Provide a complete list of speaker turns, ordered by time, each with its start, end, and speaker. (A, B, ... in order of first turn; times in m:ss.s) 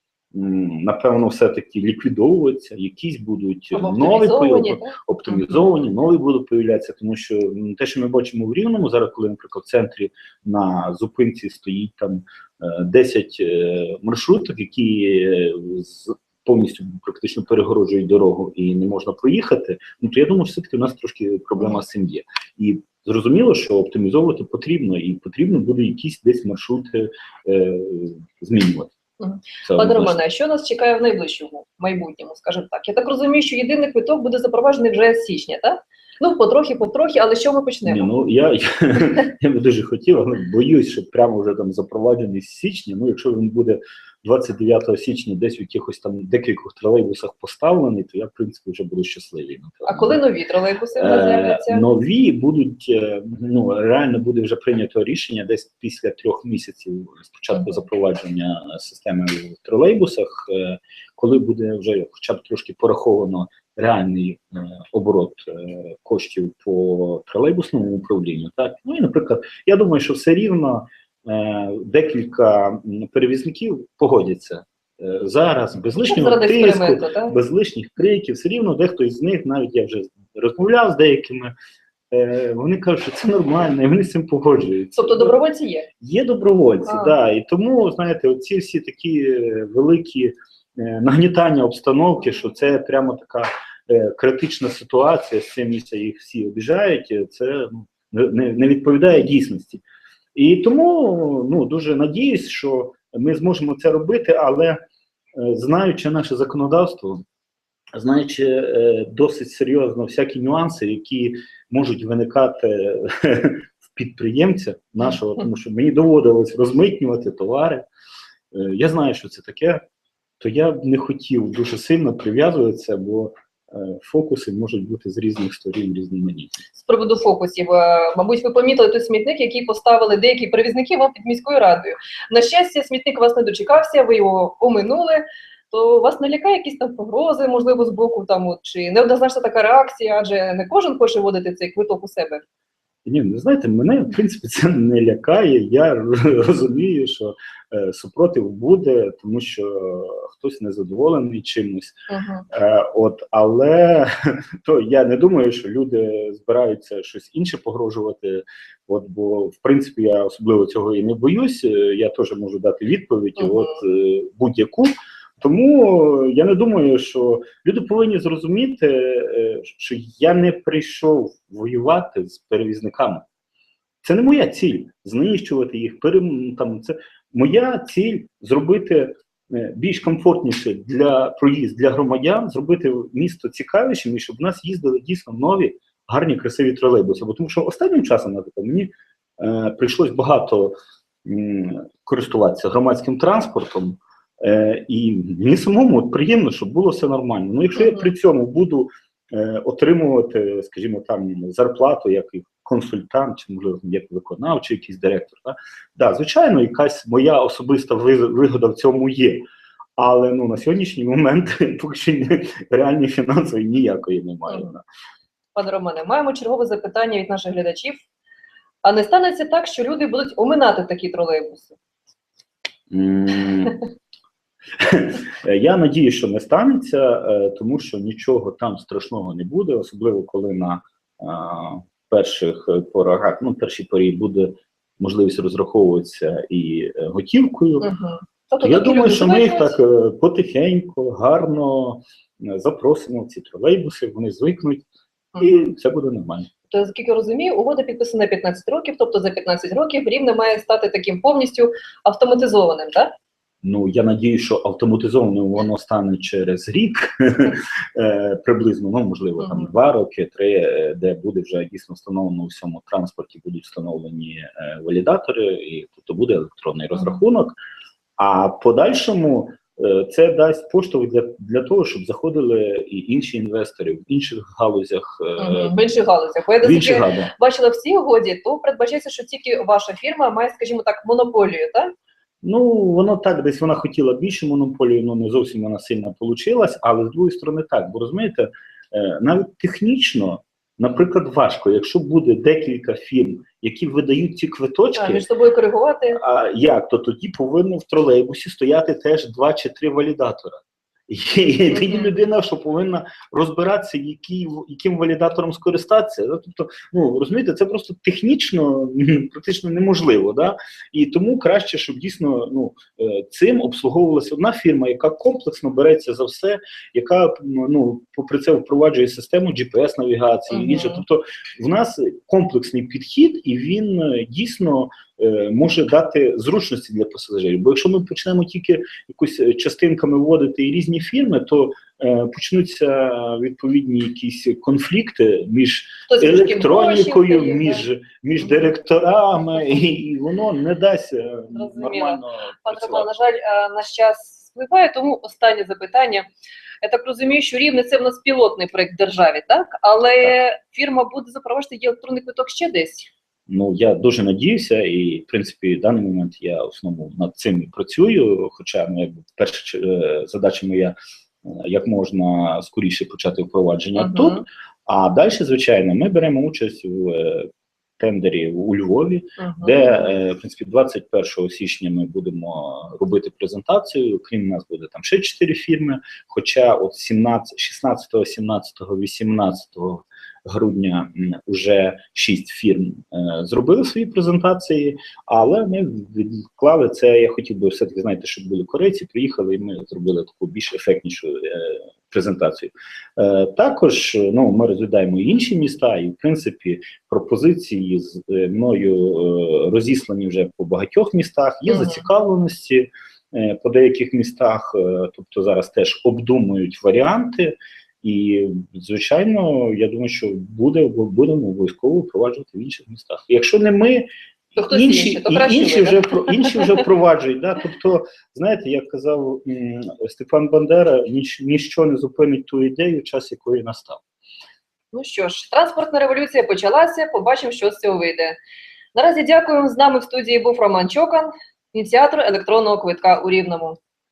0:00.3-0:28.9 A
0:03.7-0:05.6 B
0:29.2-0:38.1 B
0:29.6-0:30.2 A
0:37.9-0:50.2 A
0:49.9-0:51.8 B
0:51.0-1:21.5 A
1:16.0-1:17.4 B
1:22.1-1:25.4 A
1:25.0-1:25.9 B
1:26.0-1:39.8 A
1:26.8-1:27.1 B
1:40.4-1:44.8 A
1:45.3-1:47.2 A
1:47.9-1:57.9 A
1:58.5-1:59.8 A
2:00.4-2:06.6 A
2:06.8-2:22.4 B
2:23.0-2:32.0 A
2:32.1-2:32.4 B
2:32.5-2:53.2 A
2:43.4-2:43.8 B
2:54.0-3:29.4 A
3:17.8-3:18.1 B
3:30.0-3:34.8 A
3:35.5-3:38.0 B
3:38.8-3:41.8 B
3:42.9-3:43.8 A
3:44.8-3:57.9 A
3:57.8-3:59.8 B
3:58.6-4:04.9 A
4:05.4-4:05.7 B
4:05.4-4:06.5 A
4:06.7-4:13.1 B
4:13.6-4:27.6 A
4:19.4-4:19.7 B
4:28.2-4:35.8 A
4:35.4-4:41.9 B
4:36.6-4:37.3 A
4:42.4-4:55.2 A
4:55.0-4:56.2 B
4:56.1-5:43.1 A
5:01.7-5:02.2 B
5:20.5-5:21.0 B
5:36.1-5:37.8 B
5:41.5-5:46.3 B
5:46.8-5:53.1 B
5:53.5-6:54.1 A
6:04.0-6:04.4 B
6:09.4-6:10.1 B
6:41.7-6:42.0 B
6:54.6-6:56.7 B
6:54.6-7:04.0 A
7:04.9-7:08.4 B
7:09.0-7:13.8 B